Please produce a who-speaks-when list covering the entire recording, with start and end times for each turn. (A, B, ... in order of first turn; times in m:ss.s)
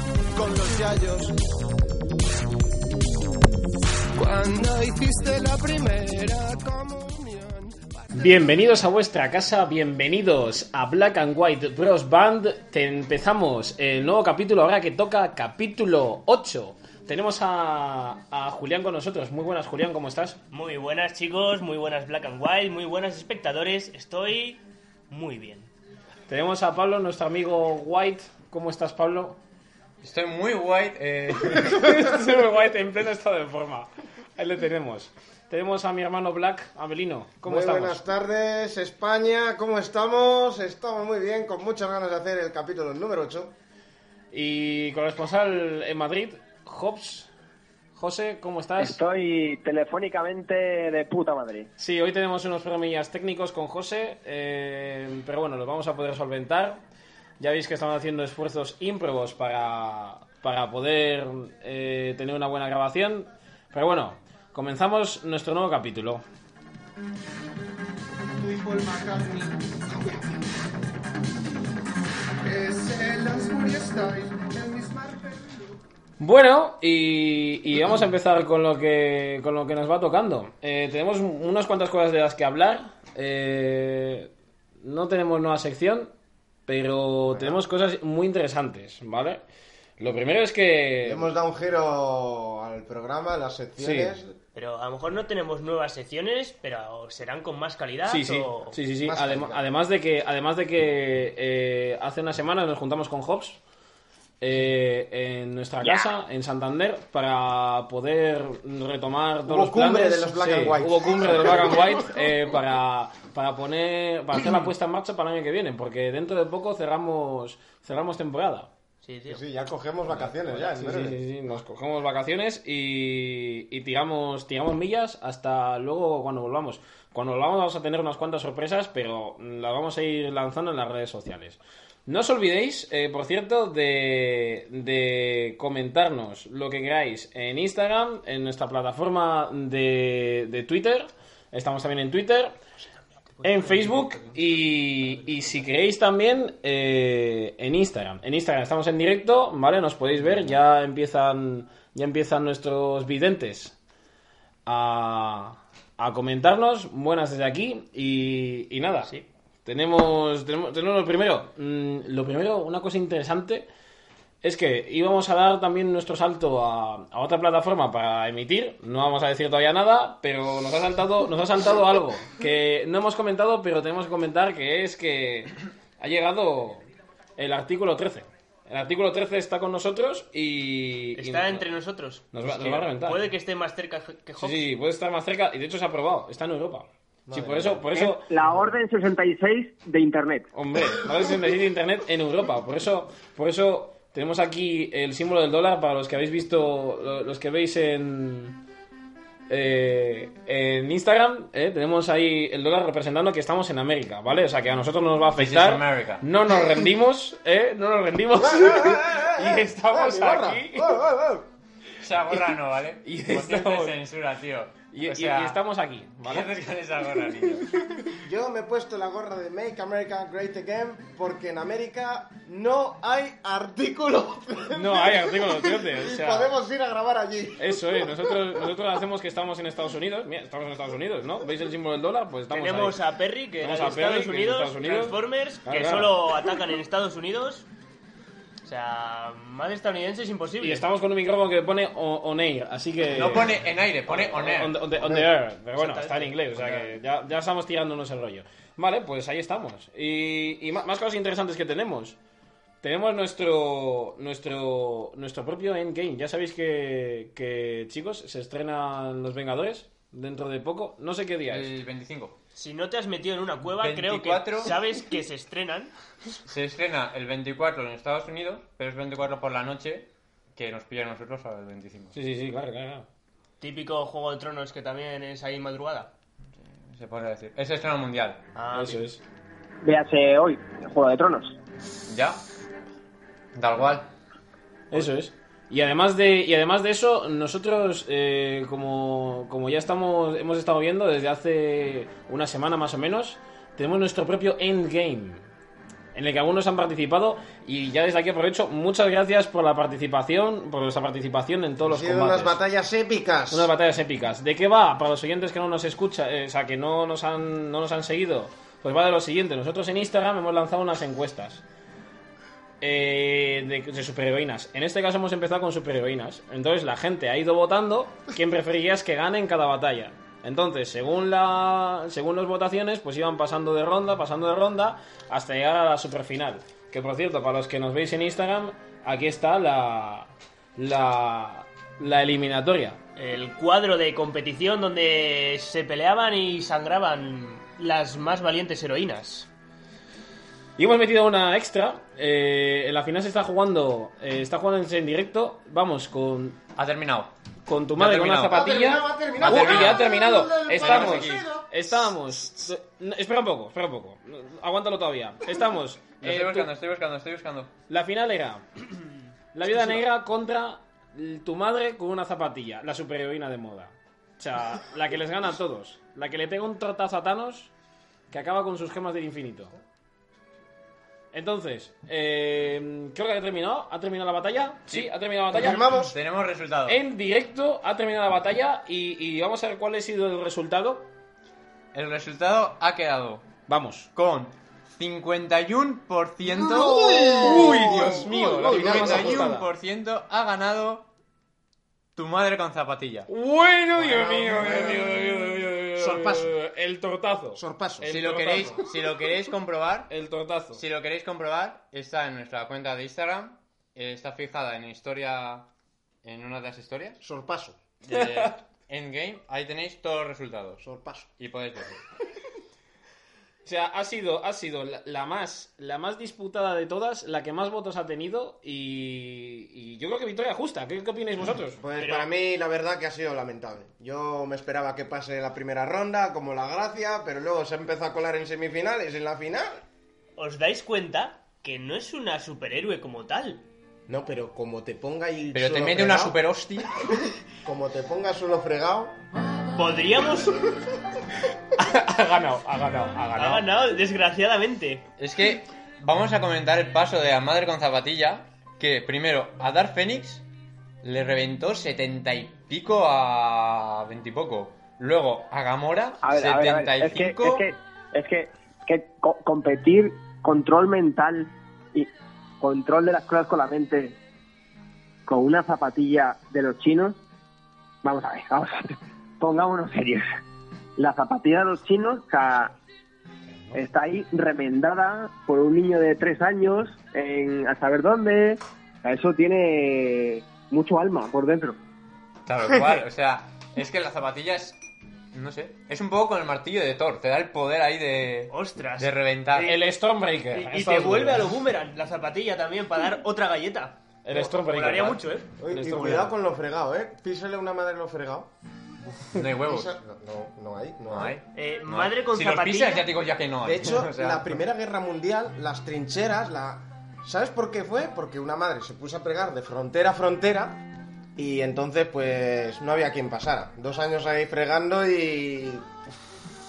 0:00.4-0:01.4 A
0:04.2-0:08.6 A
0:08.1-0:20.4 B
0:20.5-0:25.7 C
0:26.3-0:29.4 B
0:30.0-0:32.0 D
0:31.5-0:38.0 B
0:37.4-0:43.6 E
0:44.3-0:47.3 B
0:47.9-0:49.0 B
0:48.8-0:51.7 F
0:51.8-0:56.8 B
0:57.4-1:06.2 B
1:08.4-1:10.4 A
1:12.4-1:15.7 A
1:16.2-1:24.3 B
1:24.8-1:26.1 B
1:26.7-1:29.4 B
1:27.3-1:27.6 E
1:30.0-1:31.3 B
1:31.0-1:34.4 E
1:33.8-1:34.2 B
1:34.6-1:38.8 C
1:38.1-1:43.6 B
1:39.0-1:39.7 E
1:44.4-1:58.7 B
1:49.5-1:52.1 E
1:59.0-1:59.4 C
1:59.3-2:01.2 E
2:00.2-2:22.6 B
2:23.4-2:33.8 B
2:34.7-2:39.1 B
2:39.7-2:43.7 B
2:44.4-3:01.7 B
3:01.2-3:04.7 C
3:02.3-3:03.3 B
3:04.4-3:08.3 B
3:07.3-3:07.9 E
3:07.9-3:10.5 F
3:08.4-3:08.8 E
3:10.5-3:18.6 B
3:19.5-3:31.0 B
3:25.4-3:26.3 D
3:28.4-3:31.5 E
3:32.0-3:35.6 D
3:33.0-3:34.0 B
3:34.9-3:36.5 B
3:36.2-3:37.6 D
3:38.2-3:48.6 E
3:44.7-3:46.5 B
3:47.6-3:53.0 B
3:52.5-3:57.7 C
3:53.6-3:56.2 B
3:58.6-4:00.8 C
4:00.6-4:12.2 B
4:03.1-4:04.8 D
4:05.0-4:05.3 E
4:05.8-4:07.0 C
4:12.8-4:21.7 B
4:21.5-4:22.4 D
4:22.6-4:25.9 C
4:23.8-4:24.8 D
4:26.5-4:32.1 D
4:32.1-4:33.1 B
4:33.6-4:36.1 C
4:36.6-4:38.4 D
4:38.6-4:39.0 C
4:38.7-4:39.2 B
4:39.8-4:41.6 F
4:42.1-4:42.4 D
4:43.6-4:44.1 D
4:44.9-4:55.4 B
4:56.1-5:02.6 B
5:01.8-5:03.7 E
5:03.5-5:11.6 B
5:12.8-5:33.0 B
5:33.2-5:39.5 C
5:40.8-5:46.6 B
5:46.8-5:47.3 D
5:47.7-5:56.7 B
5:48.0-5:48.7 D
5:48.5-5:51.9 E
5:49.4-5:50.1 D
5:50.7-5:51.5 D
5:56.2-5:57.7 D
5:57.9-5:58.6 B
5:59.5-6:07.7 B
6:08.3-6:09.7 B
6:11.3-6:15.9 B
6:14.9-6:17.0 D
6:15.5-6:16.2 E
6:16.9-6:21.1 B
6:21.9-6:23.5 D
6:23.7-6:24.1 B
6:24.2-6:31.1 D
6:26.5-6:29.5 E
6:27.3-6:29.7 B
6:32.2-6:33.3 D
6:33.3-6:39.0 B
6:34.0-6:35.2 E
6:36.0-6:36.5 E
6:37.6-6:38.1 E
6:38.1-6:40.1 D
6:40.1-6:40.8 B
6:40.7-6:45.7 D
6:46.2-6:47.2 D
6:47.2-6:47.8 E
6:48.0-6:50.8 D
6:48.1-6:48.5 B
6:50.8-6:51.3 E
6:51.4-6:52.0 D
6:53.6-7:01.8 B
7:01.8-7:09.8 E
7:02.0-7:02.3 C
7:10.4-7:13.7 C
7:14.1-7:16.4 E
7:15.5-7:17.1 D
7:17.6-7:19.2 E
7:19.8-7:20.6 C
7:21.8-7:23.7 B
7:23.4-7:25.1 C
7:25.2-7:30.4 D
7:31.0-7:37.7 D
7:36.2-7:42.1 F
7:42.6-7:44.2 F
7:45.3-7:47.2 F
7:48.0-7:50.3 F
7:51.0-7:52.7 F
7:53.7-8:01.8 F
8:02.5-8:04.8 D
8:05.3-8:09.8 D
8:08.5-8:09.8 C
8:09.6-8:11.5 B
8:10.5-8:15.5 C
8:14.2-8:16.3 B
8:15.6-8:18.5 E
8:19.3-8:20.0 D
8:19.6-8:21.4 E
8:21.1-8:24.6 D
8:21.5-8:23.1 C
8:23.6-8:30.8 E
8:31.4-8:35.9 E